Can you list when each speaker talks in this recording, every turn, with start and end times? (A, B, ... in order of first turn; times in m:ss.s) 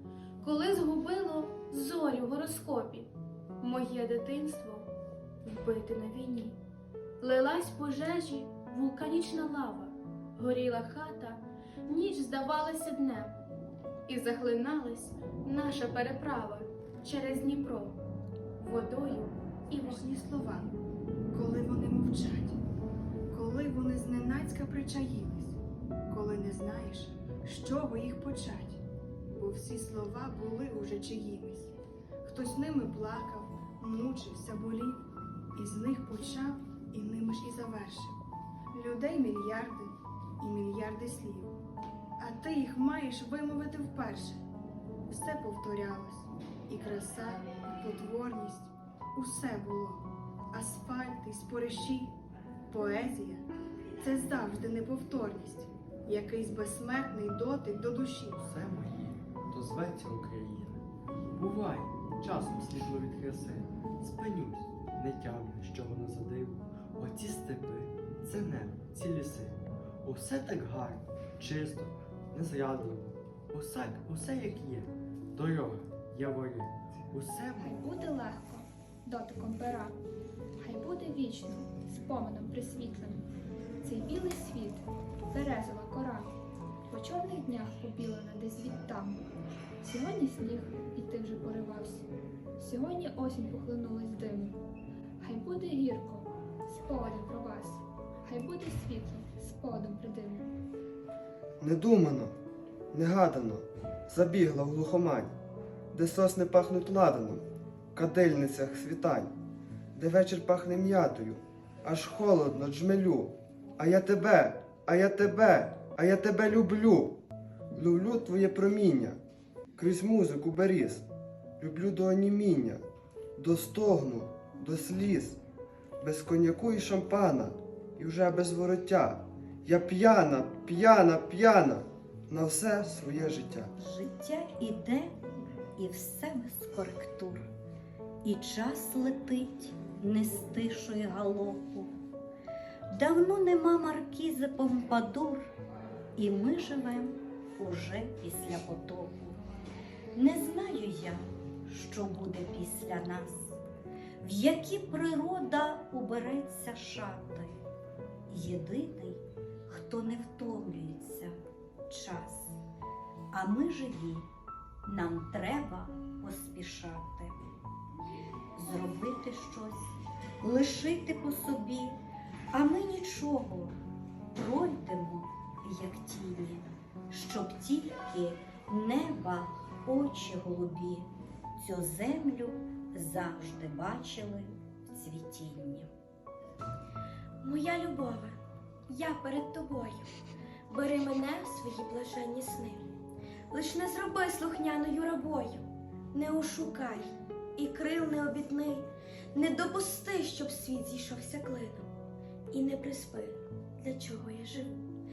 0:00.4-0:03.1 A
0:01.6-0:02.9 B
0:03.6-0:04.9 A
0:03.6-0:04.8 B
0:05.4-0:06.5 B
0:05.8-0:06.5 A
0:07.2-0:13.4 A
0:14.1-0:18.0 A
0:18.6-0:20.1 A
0:19.7-0:20.7 C
0:21.3-0:22.6 C
0:23.3-0:35.0 C
0:35.5-0:38.2 C
0:38.7-0:41.6 C
0:42.2-0:44.4 C
0:45.1-0:52.1 C
0:52.7-0:53.4 C
0:54.0-0:58.4 C
0:58.4-1:00.8 D
1:01.3-1:17.8 D
1:17.6-1:20.0 E
1:20.6-1:23.3 E
1:23.8-1:26.3 E
1:26.9-1:29.3 E
1:29.8-1:32.0 E
1:32.6-1:34.6 E
1:35.2-1:40.5 E
1:41.6-1:42.3 F
1:42.9-1:45.3 F
1:45.9-1:49.3 F
1:49.9-1:57.2 F
1:57.7-1:59.2 F
1:59.8-2:01.0 F
2:01.6-2:02.8 F
2:03.4-2:05.4 F
2:06.0-2:13.7 F
2:13.8-2:15.1 G
2:15.8-2:17.5 G
2:18.2-2:21.9 G
2:22.9-2:25.4 G
2:26.2-2:29.4 G
2:30.1-2:33.6 G
2:34.2-2:37.5 G
2:38.3-2:41.3 G
2:41.9-2:42.6 G
2:43.3-2:44.3 G
2:44.8-2:47.4 G
2:48.6-2:52.0 G
2:52.5-2:53.7 G
2:54.3-3:05.9 G
3:07.4-3:10.1 B
3:10.7-3:12.9 B
3:13.5-3:21.9 B
3:22.5-3:24.8 B